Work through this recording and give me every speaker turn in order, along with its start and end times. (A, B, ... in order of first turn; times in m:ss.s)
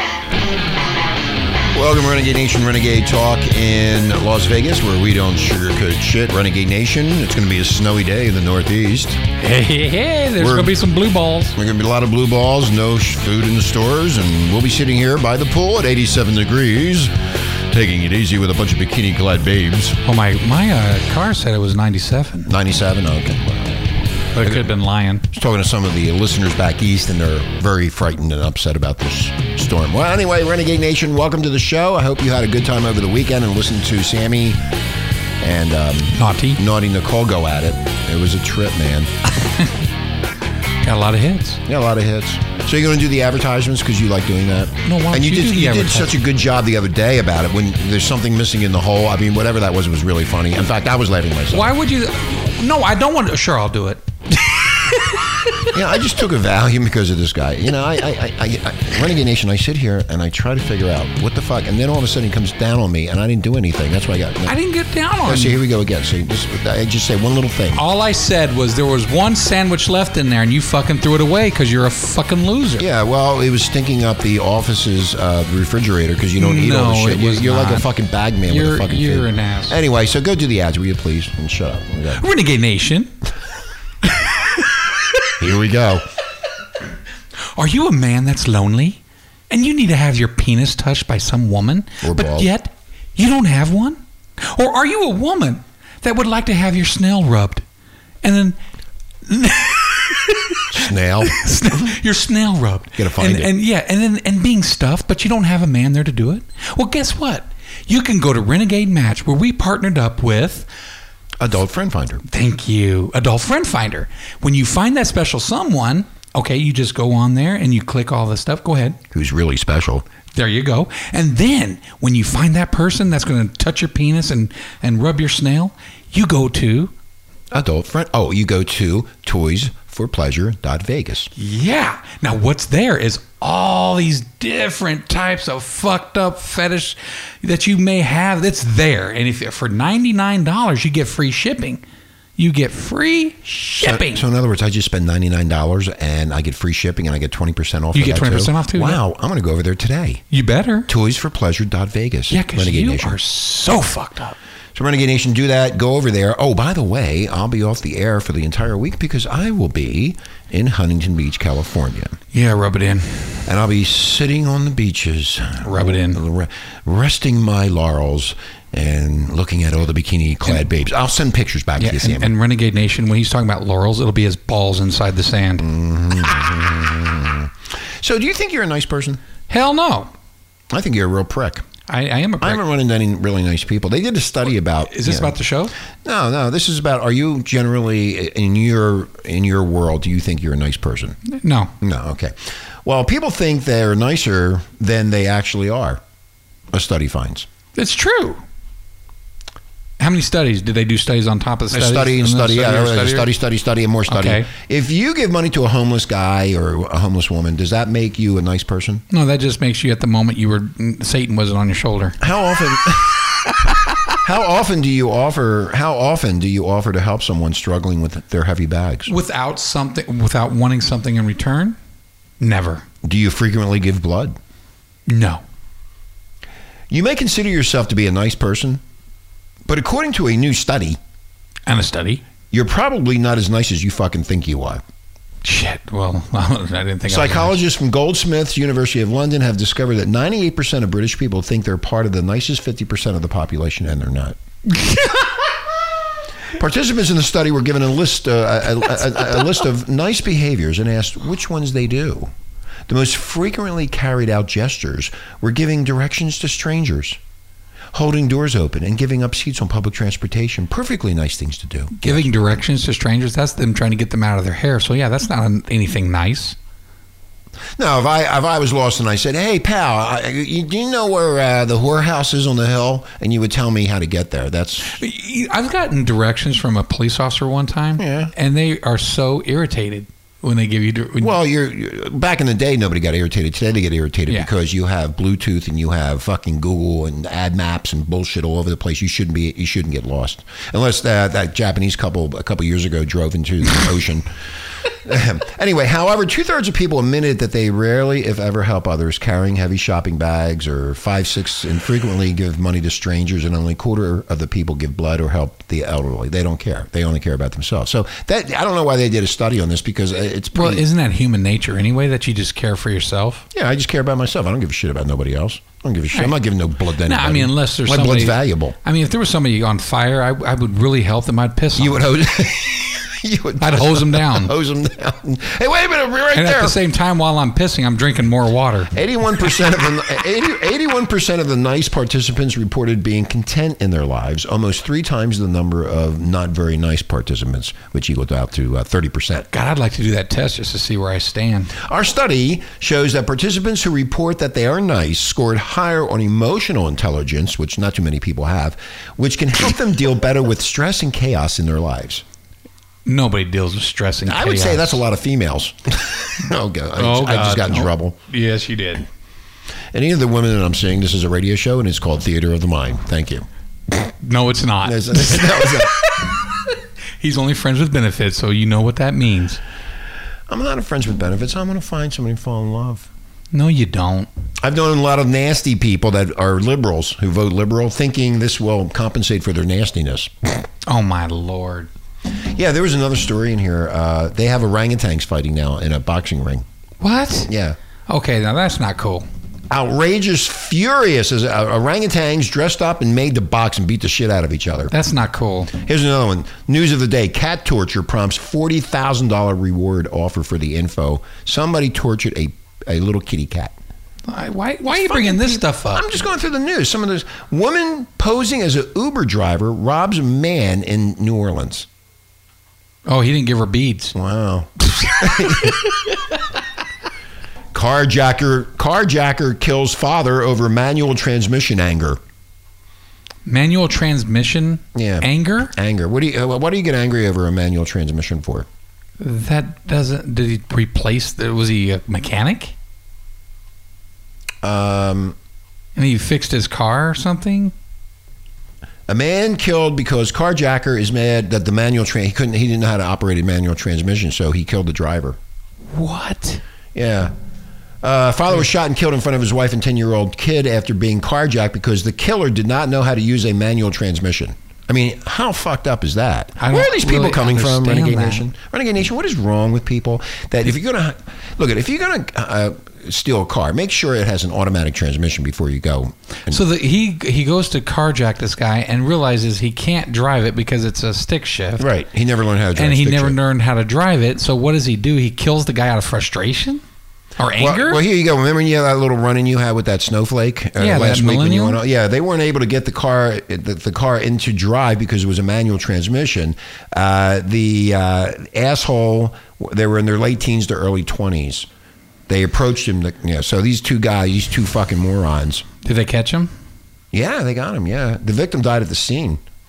0:01.7-0:09.2 A
0:09.4-0:11.6 B
0:10.4-0:10.7 A
0:11.5-0:20.0 A
0:20.0-0:22.5 B
0:22.4-0:24.7 A
0:24.3-0:25.3 B
0:25.3-0:34.6 A
0:35.4-0:39.1 A
0:36.1-0:36.6 B
0:39.4-0:39.7 B
0:40.8-0:41.6 B
0:41.6-0:51.7 A
0:44.8-0:46.1 B
0:51.5-0:55.6 B
0:55.7-1:04.6 A
1:04.4-1:05.6 B
1:05.2-1:07.8 A
1:07.7-1:12.8 B
1:12.8-1:22.2 A
1:16.4-1:17.9 B
1:18.4-1:19.8 B
1:22.1-1:23.1 B
1:24.1-1:25.3 B
1:25.4-1:26.0 A
1:27.5-1:37.6 B
1:32.0-1:32.5 A
1:38.2-1:38.6 B
1:39.2-1:50.7 B
1:40.7-1:41.8 A
1:43.0-1:43.5 A
1:51.4-1:52.2 A
1:52.2-1:59.0 B
1:59.1-2:00.0 A
2:00.3-2:06.9 B
2:07.5-2:11.3 A
2:11.3-2:21.8 B
2:22.4-2:24.2 B
2:23.8-2:30.2 A
2:27.9-2:29.0 B
2:30.3-2:30.9 B
2:30.9-2:33.2 A
2:32.3-2:34.4 B
2:34.7-2:42.2 A
2:42.3-2:43.3 B
2:43.4-2:52.3 A
2:45.6-2:46.2 B
2:51.8-2:55.7 B
2:55.6-2:59.2 A
2:59.5-3:00.1 B
3:00.7-3:01.6 A
3:01.9-3:02.6 B
3:02.4-3:05.4 A
3:04.8-3:05.7 B
3:06.0-3:11.2 A
3:11.3-3:11.7 B
3:11.8-3:16.0 A
3:16.7-3:17.5 A
3:17.7-3:18.4 B
3:20.0-3:23.3 B
3:21.7-3:29.0 A
3:24.1-3:24.5 B
3:29.1-3:32.2 B
3:32.2-3:33.2 A
3:34.2-3:39.1 A
3:39.1-3:41.8 B
3:42.4-3:42.8 B
3:43.0-3:44.4 A
3:45.1-3:45.4 B
3:46.9-3:48.8 A
3:49.6-3:51.0 A
3:51.6-3:52.2 B
3:52.5-3:54.8 A
3:55.4-3:57.6 B
3:57.1-4:04.4 A
4:04.7-4:05.3 B
4:06.5-4:12.3 A
4:12.9-4:17.2 A
4:17.9-4:22.3 A
4:21.9-4:26.6 B
4:27.8-4:35.0 A
4:34.8-4:41.4 B
4:38.0-4:38.3 A
4:41.2-4:54.4 A
4:54.9-5:10.8 A
5:10.5-5:13.4 B
5:13.5-5:18.8 A
5:17.0-5:22.0 B
5:21.8-5:26.8 A
5:23.6-5:24.5 B
5:26.3-5:28.9 B
5:28.9-5:39.5 A
5:39.5-5:41.8 B
5:41.7-5:52.2 A
5:53.0-5:55.0 B
5:54.2-5:58.2 A
5:57.0-5:59.1 B
5:59.9-6:03.4 A
6:04.2-6:09.6 B
6:04.8-6:05.9 A
6:10.5-6:13.1 A
6:13.5-6:14.3 B
6:14.6-6:20.6 A
6:20.8-6:21.9 B
6:22.4-6:26.6 A
6:27.0-6:27.5 B
6:27.5-6:27.8 A
6:28.1-6:29.2 B
6:29.7-6:34.9 A
6:34.9-6:35.7 B
6:35.7-6:43.7 A
6:44.3-6:46.2 B
6:44.9-6:51.9 A
6:53.0-6:54.1 B
6:54.1-6:56.0 A
6:55.1-6:55.8 B
6:57.7-7:02.2 A
7:03.4-7:05.7 B
7:04.9-7:08.7 A
7:09.2-7:12.7 B
7:14.6-7:15.4 A
7:16.0-7:17.7 B
7:19.1-7:25.4 A
7:25.9-7:26.6 B
7:26.9-7:27.3 A
7:28.0-7:46.6 A
7:36.6-7:38.5 B
7:46.5-7:51.9 B
7:51.8-7:53.4 A
7:52.8-7:56.8 B
7:57.4-7:58.0 B
7:57.6-8:11.7 A
8:00.8-8:01.8 B
8:12.3-8:15.6 A
8:15.8-8:16.5 B
8:17.1-8:19.4 A